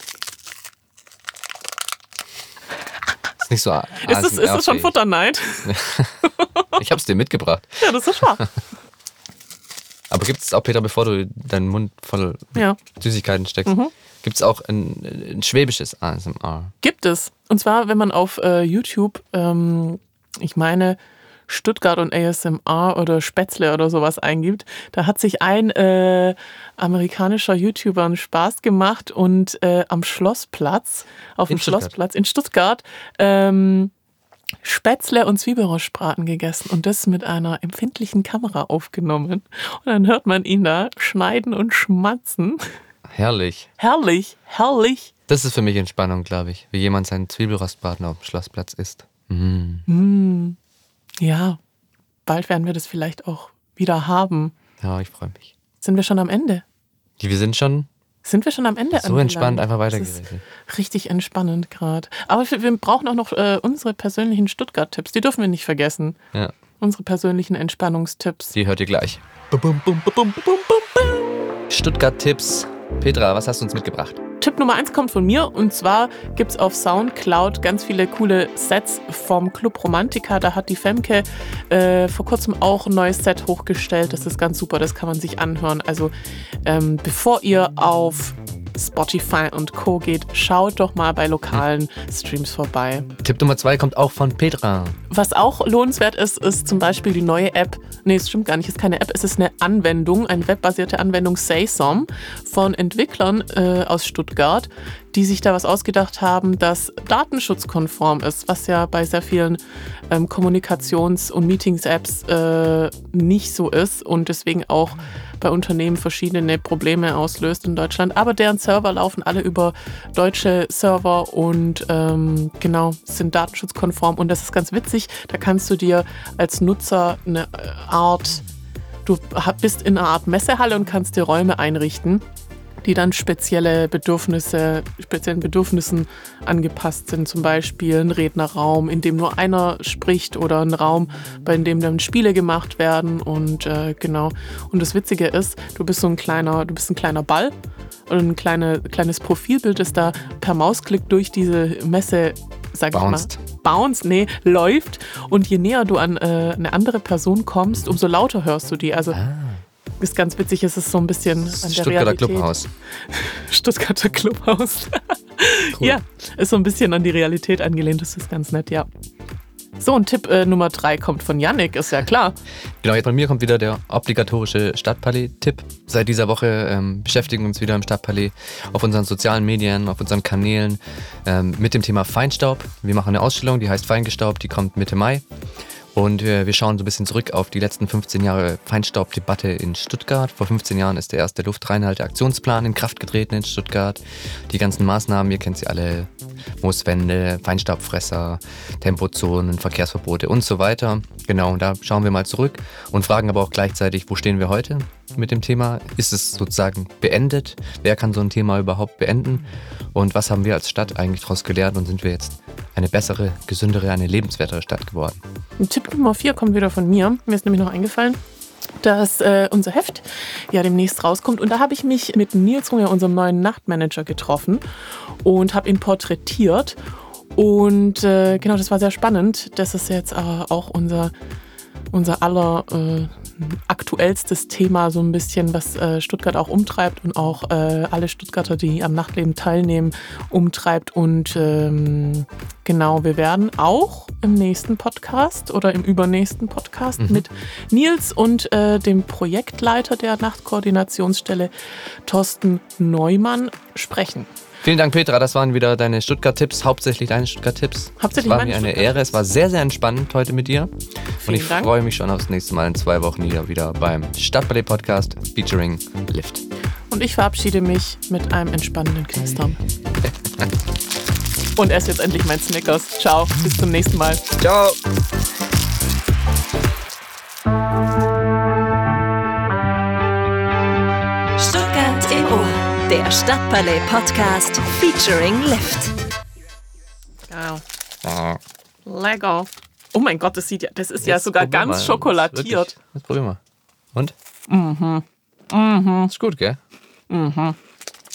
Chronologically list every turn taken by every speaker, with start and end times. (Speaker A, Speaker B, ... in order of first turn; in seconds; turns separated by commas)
Speaker A: 3.4-4.9, Speaker B: 4.0-6.7, Speaker A: 5.6-6.2, Speaker A: 6.8-8.5, Speaker B: 7.8-8.5, Speaker A: 10.1-16.7, Speaker B: 13.6-13.9, Speaker B: 16.8-33.9, Speaker A: 31.5-31.9, Speaker B: 34.6-42.7, Speaker A: 43.1-43.7, Speaker B: 43.8-45.1, Speaker A: 45.3-49.9, Speaker B: 49.9-50.6, Speaker B: 51.2-51.6, Speaker B: 52.2-54.5, Speaker A: 54.8-55.5, Speaker B: 55.8-56.6, Speaker A: 57.2-57.9, Speaker B: 58.2-66.2, Speaker A: 58.9-60.4, Speaker B: 66.8-68.5, Speaker A: 68.5-74.2, Speaker B: 74.4-86.1, Speaker B: 86.6-93.1, Speaker A: 93.2-95.0, Speaker B: 95.1-109.6, Speaker B: 110.1-128.4, Speaker B: 129.0-132.2, Speaker B: 132.8-147.5, Speaker B: 148.1-159.2, Speaker A: 152.9-153.4, Speaker A: 159.1-159.6, Speaker B: 160.0-168.9, Speaker A: 161.5-162.7, Speaker B: 169.8-172.4, Speaker A: 172.8-185.2, Speaker A: 185.9-196.1, Speaker A: 196.6-215.2, Speaker B: 215.6-218.2, Speaker B: 218.8-224.6, Speaker B: 225.2-226.8, Speaker B: 227.3-231.1, Speaker B: 231.9-251.5, Speaker A: 247.0-247.2, Speaker B: 252.1-254.3, Speaker A: 254.6-260.7, Speaker B: 258.0-259.0, Speaker B: 261.2-261.7, Speaker A: 261.2-266.4, Speaker B: 266.9-269.6, Speaker B: 271.6-274.2, Speaker A: 274.4-274.8, Speaker C: 281.4-285.9, Speaker B: 287.3-287.6, Speaker A: 288.0-288.4, Speaker B: 288.9-292.7, Speaker A: 291.0-293.4, Speaker B: 294.5-296.1, Speaker A: 296.1-296.6, Speaker B: 297.1-297.6